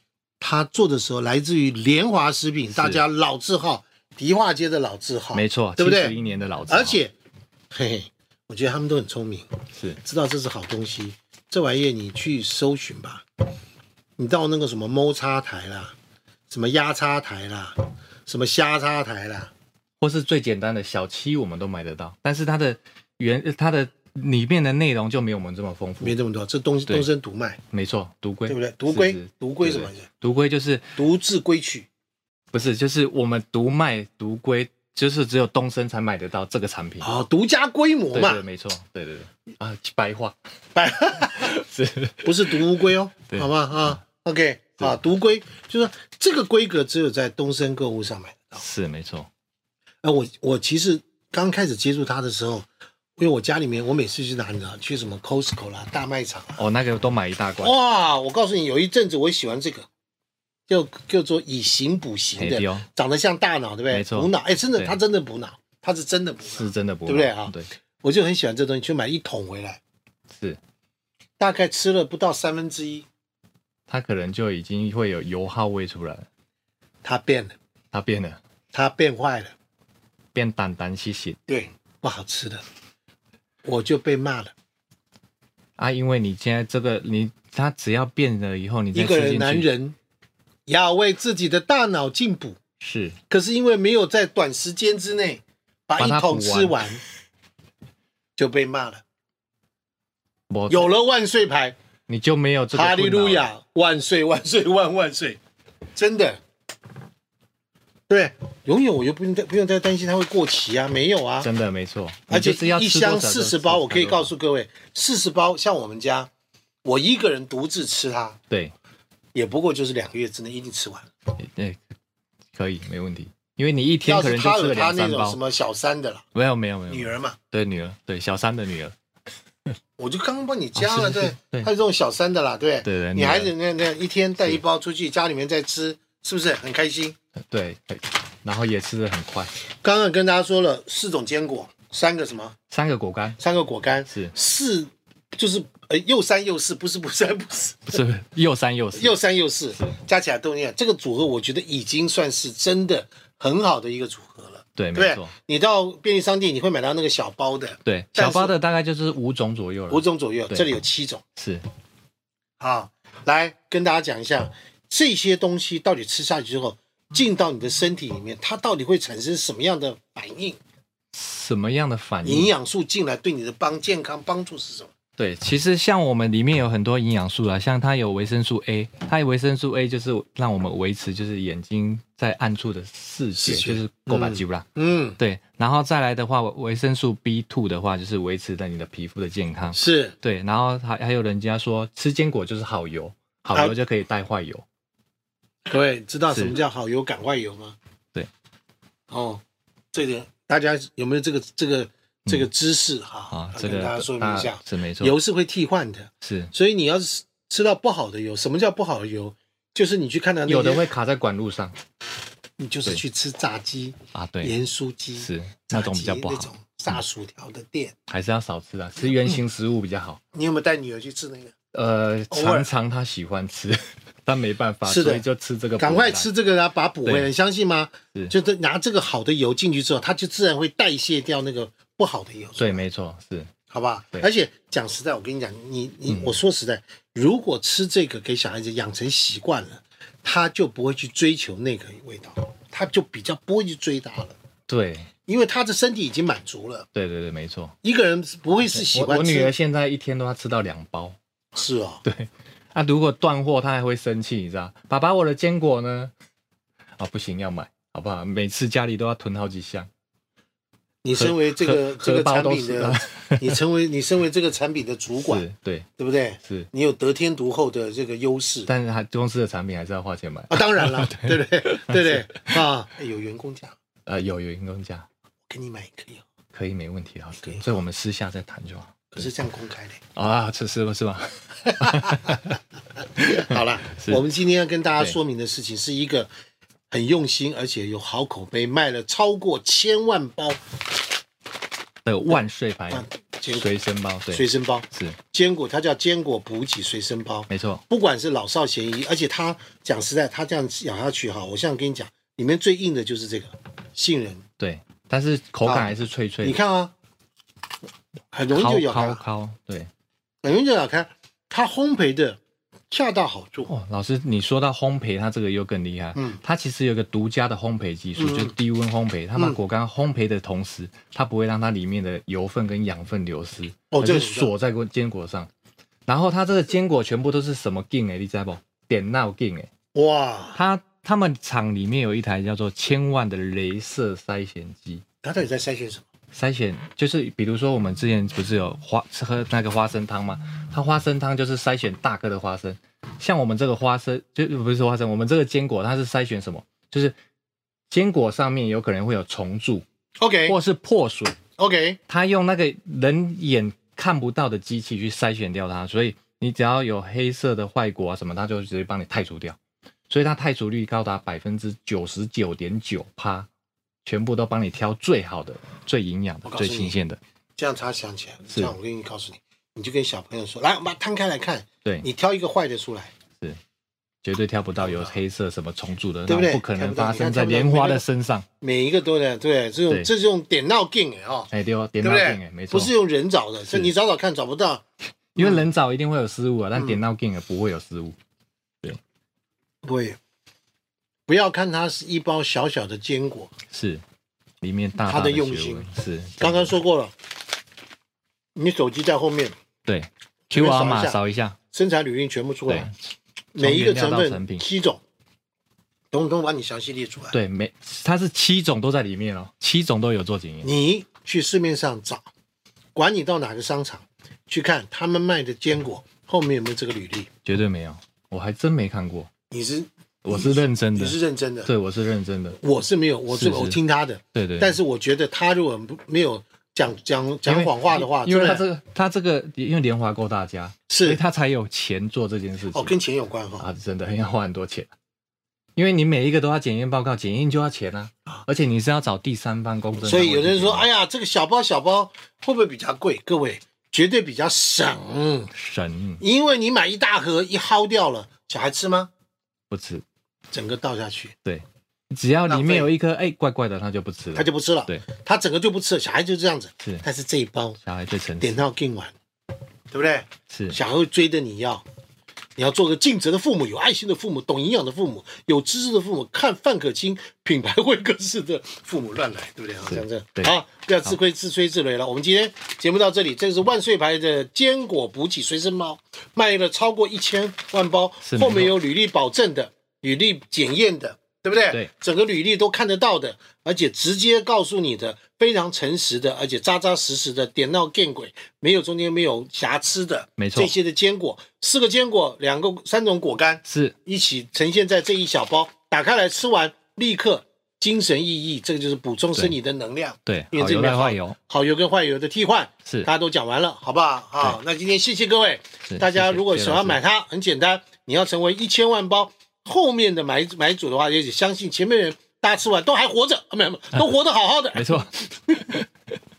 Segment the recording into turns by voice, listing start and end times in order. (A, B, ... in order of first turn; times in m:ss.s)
0:00.4-0:06.1 A
0:02.7-0:03.0 B
0:05.3-0:07.0 B
0:06.7-0:07.1 A
0:07.7-0:13.2 A
0:09.7-0:10.0 B
0:14.2-0:16.0 A
0:16.5-0:19.5 A
0:20.0-0:26.1 B
0:26.0-0:27.6 A
0:27.7-0:31.0 B
0:28.5-0:30.1 A
0:31.0-0:31.9 A
0:32.5-0:37.1 B
0:37.0-0:38.4 A
0:38.1-0:40.3 B
0:40.8-0:41.5 A
0:41.1-0:44.0 B
0:42.2-0:48.6 A
0:48.6-0:49.3 B
0:50.0-0:52.7 A
0:53.2-0:56.6 A
0:56.6-0:57.8 B
0:57.6-0:59.9 A
1:00.7-1:09.8 A
1:02.4-1:02.8 B
1:03.9-1:05.0 B
1:06.4-1:07.7 B
1:10.3-1:10.6 B
1:11.4-1:13.1 A
1:13.9-1:16.3 B
1:17.0-1:17.5 A
1:17.9-1:18.4 B
1:18.7-1:19.5 A
1:20.3-1:21.4 B
1:21.5-1:22.6 A
1:23.6-1:24.5 A
1:25.8-1:29.7 B
1:28.9-1:30.0 A
1:30.6-1:32.6 A
1:32.8-1:33.2 B
1:33.3-1:37.0 A
1:36.0-1:36.8 B
1:38.4-1:39.0 A
1:40.5-1:40.9 B
1:40.7-1:41.8 A
1:42.1-1:43.5 B
1:42.7-1:45.4 A
1:45.9-1:46.4 A
1:48.1-1:51.5 A
1:51.4-1:54.3 B
1:52.3-1:56.3 A
1:56.8-1:58.4 A
1:59.3-2:01.1 A
2:01.4-2:01.8 B
2:02.5-2:05.4 B
2:04.0-2:06.2 A
2:06.3-2:08.9 B
2:06.9-2:07.4 A
2:10.0-2:17.2 A
2:10.8-2:11.7 B
2:12.8-2:13.5 B
2:17.5-2:19.5 B
2:19.8-2:22.5 A
2:22.7-2:23.4 B
2:23.4-2:28.0 A
2:24.1-2:24.3 B
2:27.9-2:29.2 B
2:28.9-2:38.5 A
2:34.8-2:35.3 B
2:37.8-2:40.7 B
2:39.9-2:41.2 A
2:41.4-2:41.6 B
2:42.6-2:50.6 A
2:51.1-2:52.5 B
2:52.2-2:54.9 A
2:55.2-3:04.6 B
3:03.4-3:05.2 A
3:05.2-3:14.6 B
3:09.7-3:10.1 A
3:15.7-3:17.8 A
3:16.3-3:16.6 B
3:19.1-3:19.4 A
3:19.9-3:30.8 A
3:23.3-3:25.2 B
3:26.2-3:26.5 B
3:30.5-3:31.8 B
3:32.6-3:37.9 A
3:34.1-3:34.5 B
3:35.2-3:36.5 B
3:38.1-3:40.2 B
3:40.3-3:41.5 A
3:41.7-3:46.3 B
3:42.3-3:42.7 A
3:44.8-3:45.2 A
3:45.8-3:52.8 A
3:47.0-3:47.3 B
3:52.6-3:53.5 B
3:53.7-4:04.4 A
3:56.1-3:56.4 B
4:04.7-4:05.1 B
4:05.2-4:06.9 A
4:06.9-4:07.8 B
4:07.8-4:09.5 A
4:08.6-4:11.2 B
4:11.5-4:12.0 A
4:12.0-4:16.1 B
4:17.0-4:19.9 B
4:21.0-4:25.4 A
4:21.1-4:23.6 B
4:25.2-4:25.9 B
4:26.0-4:28.7 A
4:26.4-4:26.7 B
4:28.7-4:32.6 B
4:30.5-4:33.8 A
4:34.0-4:35.0 B
4:35.5-4:36.2 A
4:36.5-4:39.3 B
4:39.1-4:40.0 A
4:40.1-4:42.6 B
4:41.8-4:42.4 A
4:43.1-4:46.3 A
4:43.2-4:44.2 B
4:46.9-4:50.6 A
4:52.0-4:55.2 B
4:52.9-4:53.7 A
4:54.3-5:04.4 A
4:57.5-4:57.8 B
5:04.6-5:06.6 B
5:05.6-5:06.9 A
5:08.3-5:09.2 A
5:08.5-5:09.9 B
5:10.4-5:12.4 A
5:12.9-5:13.7 A
5:13.7-5:25.5 B
5:18.2-5:18.5 A
5:23.9-5:24.5 A
5:26.1-5:29.7 B
5:29.9-5:30.6 A
5:30.6-5:35.0 B
5:35.2-5:36.0 A
5:36.3-5:47.1 B
5:47.9-5:49.8 B
5:50.2-5:50.6 A
5:50.5-5:51.4 B
5:51.6-5:52.0 A
5:52.1-5:59.6 B
6:00.1-6:03.5 B
6:04.0-6:07.2 B
6:06.4-6:07.0 A
6:07.6-6:13.1 A
6:08.5-6:08.8 B
6:14.2-6:18.4 B
6:14.8-6:15.2 A
6:16.3-6:18.0 A
6:18.6-6:24.8 A
6:21.5-6:22.9 B
6:25.3-6:28.2 B
6:25.4-6:25.6 A
6:29.8-6:30.2 A
6:31.3-6:33.5 A
6:33.7-6:34.0 B
6:34.6-6:36.8 B
6:35.1-6:37.1 A
6:38.6-6:39.5 A
6:39.8-6:41.6 B
6:40.5-6:41.2 A
6:41.7-6:42.9 A
6:42.7-6:42.9 B
6:43.5-6:44.6 B
6:43.6-6:45.0 A
6:46.1-6:47.4 A
6:47.3-6:50.7 B
6:50.6-6:52.2 A
6:52.9-6:57.3 A
6:57.4-6:59.3 B
6:59.5-7:01.7 A
7:00.2-7:02.6 B
7:02.6-7:08.6 A
7:03.3-7:03.8 B
7:04.3-7:04.8 B
7:07.4-7:12.9 B
7:10.9-7:11.2 A
7:12.7-7:13.7 A
7:13.6-7:14.9 B
7:15.8-7:20.9 B
7:20.0-7:25.5 A
7:25.5-7:26.2 B
7:26.2-7:29.1 A
7:29.7-7:30.0 B
7:30.5-7:31.3 A
7:31.4-7:35.0 B
7:32.5-7:32.9 A
7:34.4-7:37.8 A
7:37.8-7:38.6 B
7:38.4-7:39.1 A
7:39.9-7:41.8 A
7:40.5-7:40.8 B
7:42.6-8:35.0 A
7:49.9-7:51.1 B
7:58.2-7:58.7 B
8:10.4-8:10.8 B
8:13.6-8:14.0 B
8:20.2-8:21.4 B
8:25.9-8:27.0 B
8:34.7-8:35.8 B